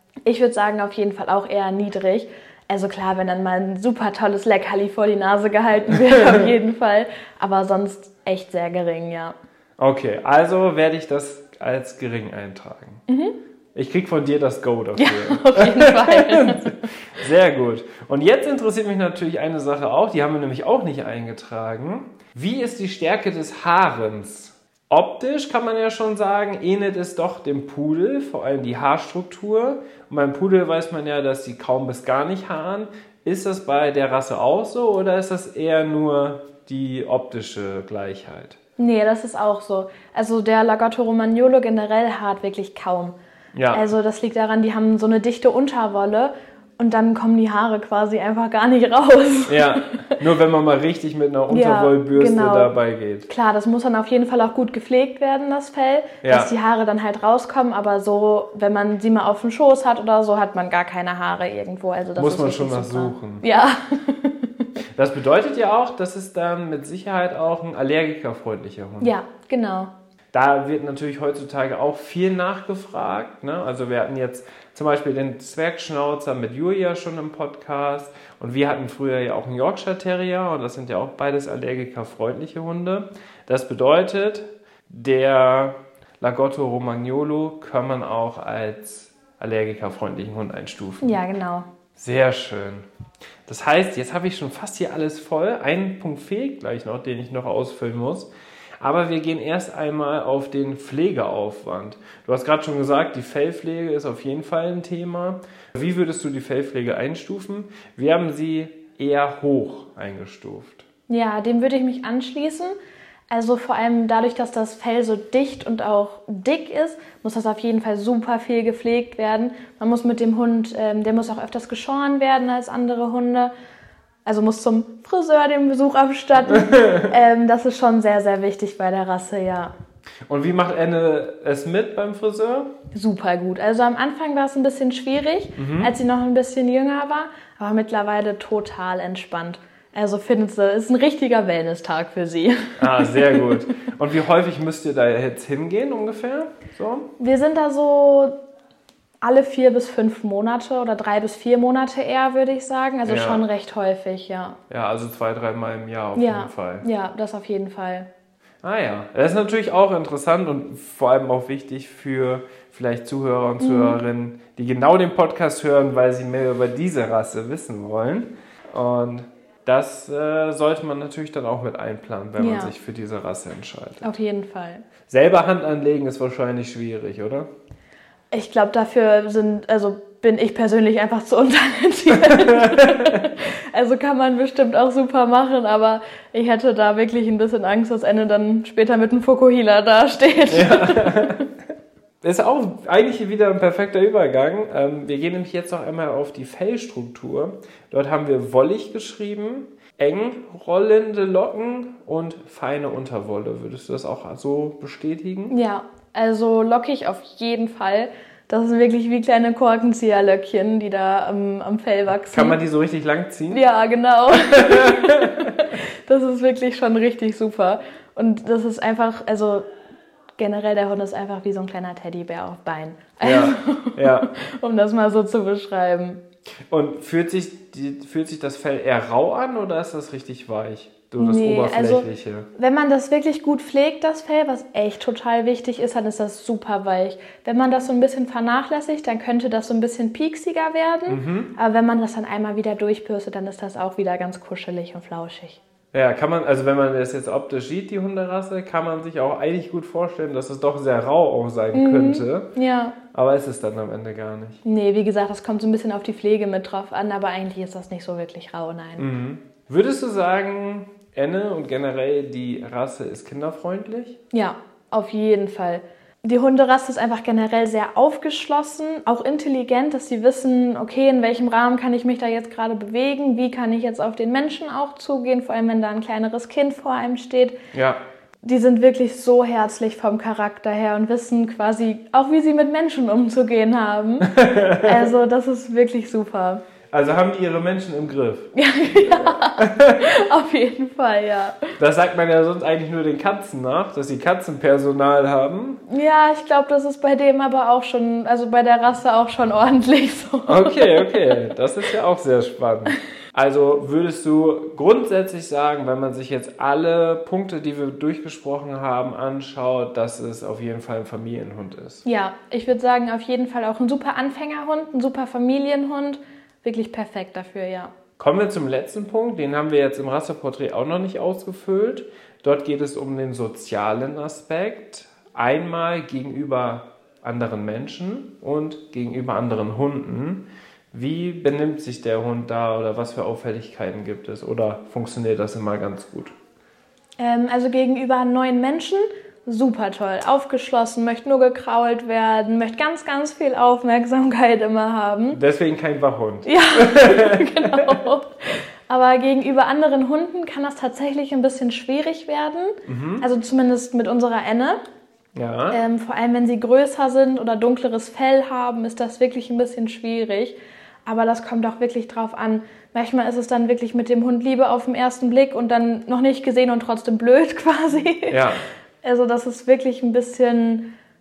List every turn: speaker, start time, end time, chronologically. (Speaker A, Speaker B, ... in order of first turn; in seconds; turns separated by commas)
Speaker A: 0.2-9.3, Speaker B: 9.8-13.0, Speaker A: 13.1-13.3, Speaker B: 13.7-38.6, Speaker A: 15.0-16.9, Speaker A: 38.8-43.1, Speaker B: 43.5-43.8, Speaker A: 43.7-50.2, Speaker B: 49.5-53.3, Speaker A: 51.5-52.7, Speaker A: 53.3-64.7, Speaker B: 56.2-56.5, Speaker B: 62.2-63.4, Speaker B: 64.9-69.1, Speaker A: 69.0-69.9, Speaker B: 70.3-91.2, Speaker A: 91.0-91.7, Speaker B: 92.0-92.9, Speaker B: 93.5-110.9, Speaker A: 111.1-112.7, Speaker A: 113.3-123.5, Speaker A: 124.2-129.7, Speaker B: 126.5-127.1, Speaker B: 130.3-132.7, Speaker A: 132.9-143.7, Speaker B: 135.6-135.9, Speaker B: 142.8-147.1, Speaker A: 147.2-148.3, Speaker A: 149.2-154.6, Speaker B: 153.1-153.4, Speaker B: 154.7-156.8, Speaker A: 156.2-158.1, Speaker B: 158.6-174.1, Speaker A: 163.6-164.0, Speaker A: 172.4-172.7, Speaker A: 174.0-174.9, Speaker B: 175.1-177.5, Speaker A: 178.3-191.5, Speaker B: 182.3-183.2, Speaker B: 190.5-191.4, Speaker B: 192.2-205.5, Speaker A: 205.5-212.6, Speaker B: 212.3-213.6, Speaker A: 213.5-219.7, Speaker B: 214.3-215.6, Speaker A: 220.4-226.2, Speaker B: 223.2-224.3, Speaker B: 226.7-232.5, Speaker A: 231.2-245.6, Speaker B: 241.1-241.5, Speaker B: 245.9-252.5, Speaker A: 251.7-253.0, Speaker B: 253.1-254.6, Speaker A: 254.6-259.1, Speaker B: 259.0-264.2, Speaker A: 264.3-277.6, Speaker B: 277.7-278.0, Speaker A: 278.4-286.6, Speaker B: 284.2-285.1, Speaker B: 286.9-290.1, Speaker A: 288.5-291.8, Speaker B: 291.8-295.8, Speaker A: 295.9-301.4, Speaker B: 300.5-312.0, Speaker A: 312.0-317.9, Speaker B: 318.2-336.3, Speaker A: 337.2-345.4, Speaker B: 345.3-348.0, Speaker A: 346.4-354.8, Speaker B: 352.9-353.2, Speaker B: 355.3-355.8, Speaker A: 355.7-368.5, Speaker B: 368.3-368.6, Speaker A: 369.0-370.9